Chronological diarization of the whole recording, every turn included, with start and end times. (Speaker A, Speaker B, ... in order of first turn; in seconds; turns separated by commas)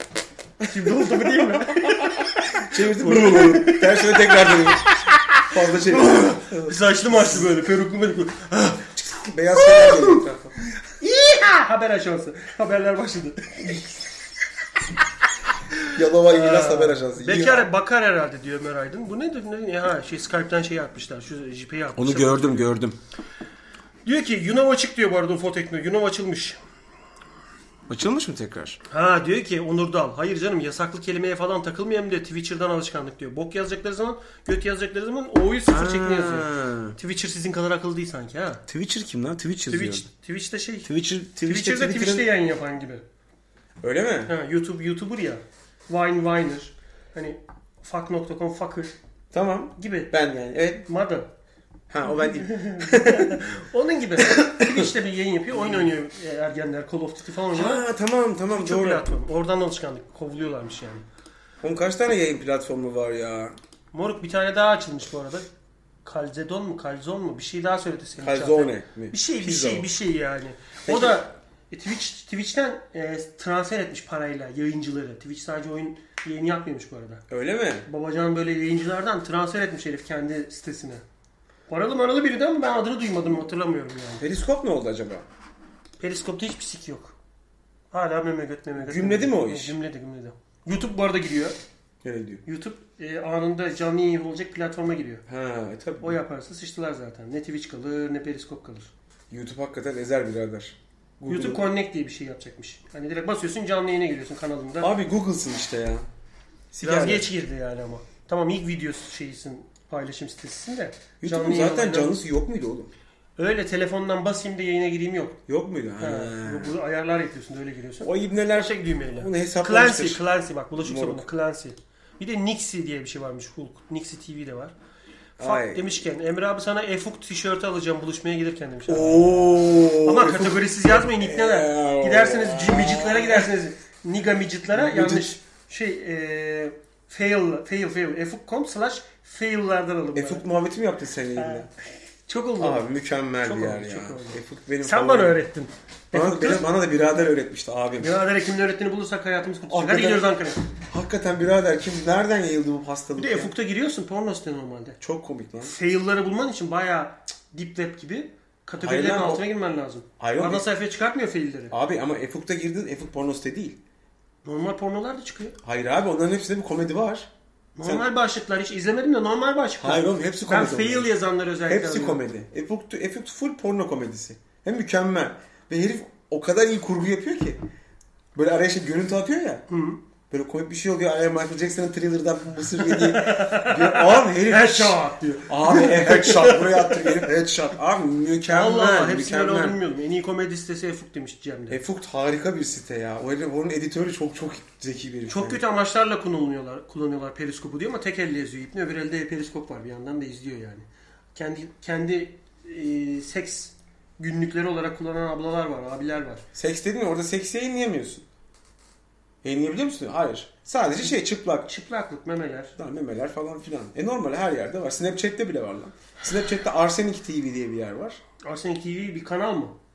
Speaker A: 0.6-4.7, Speaker B: 0.8-1.1, Speaker B: 1.7-2.0, Speaker B: 2.6-4.8, Speaker A: 5.3-8.9, Speaker B: 5.4-7.5, Speaker B: 8.9-10.5, Speaker A: 9.5-10.2, Speaker A: 10.9-13.8, Speaker B: 15.9-17.7, Speaker A: 16.2-22.7, Speaker B: 22.0-23.0, Speaker A: 24.1-26.6, Speaker B: 27.9-28.8, Speaker A: 28.9-38.6, Speaker B: 35.7-37.0, Speaker B: 38.7-40.1, Speaker A: 39.7-40.9, Speaker B: 40.9-42.3, Speaker A: 41.4-43.0, Speaker B: 43.8-44.3, Speaker A: 44.3-48.9, Speaker B: 49.3-50.9, Speaker A: 49.8-50.1, Speaker A: 50.9-51.3, Speaker B: 51.9-53.5, Speaker A: 52.4-57.9, Speaker B: 54.2-54.9, Speaker B: 55.5-55.9, Speaker B: 57.5-59.1, Speaker A: 58.5-61.0, Speaker B: 61.6-63.6, Speaker A: 63.9-65.5, Speaker A: 66.0-77.2, Speaker B: 68.2-69.9, Speaker B: 70.9-71.2, Speaker B: 77.3-77.9, Speaker A: 77.9-81.0, Speaker A: 81.7-84.2, Speaker B: 84.2-85.3, Speaker A: 86.0-87.2, Speaker A: 87.9-91.6, Speaker B: 88.8-89.8, Speaker B: 92.0-92.4, Speaker A: 92.5-95.2, Speaker B: 95.3-96.2, Speaker A: 96.0-98.9, Speaker B: 99.3-101.6, Speaker A: 101.3-104.9, Speaker B: 104.8-106.1, Speaker B: 106.7-107.3, Speaker A: 106.8-112.2, Speaker B: 111.2-112.9, Speaker A: 113.4-115.4, Speaker B: 115.5-116.8, Speaker A: 116.0-124.7, Speaker B: 118.0-120.2, Speaker B: 120.8-121.3, Speaker B: 125.4-126.0, Speaker A: 125.4-129.4, Speaker B: 128.9-133.5, Speaker A: 130.0-140.4, Speaker B: 134.7-135.3, Speaker B: 140.1-141.7, Speaker A: 142.3-142.9, Speaker B: 142.6-145.4, Speaker A: 143.4-146.7, Speaker B: 146.1-148.2, Speaker A: 148.0-150.6, Speaker B: 149.7-150.3, Speaker B: 150.9-153.5, Speaker A: 153.2-155.0, Speaker B: 155.0-155.7, Speaker A: 155.6-161.7, Speaker B: 158.8-159.4, Speaker B: 160.2-160.7, Speaker B: 161.7-163.8, Speaker A: 164.4-165.6, Speaker B: 165.6-167.3, Speaker A: 167.8-172.2, Speaker B: 169.8-171.1, Speaker B: 171.7-177.6, Speaker B: 178.3-179.7, Speaker A: 179.7-180.0, Speaker B: 180.3-189.8, Speaker A: 182.8-187.2, Speaker A: 188.5-191.8, Speaker B: 191.7-195.6, Speaker A: 195.3-206.4, Speaker B: 206.6-208.2, Speaker B: 209.4-211.7, Speaker A: 211.7-212.8, Speaker B: 212.8-218.2, Speaker A: 218.4-219.8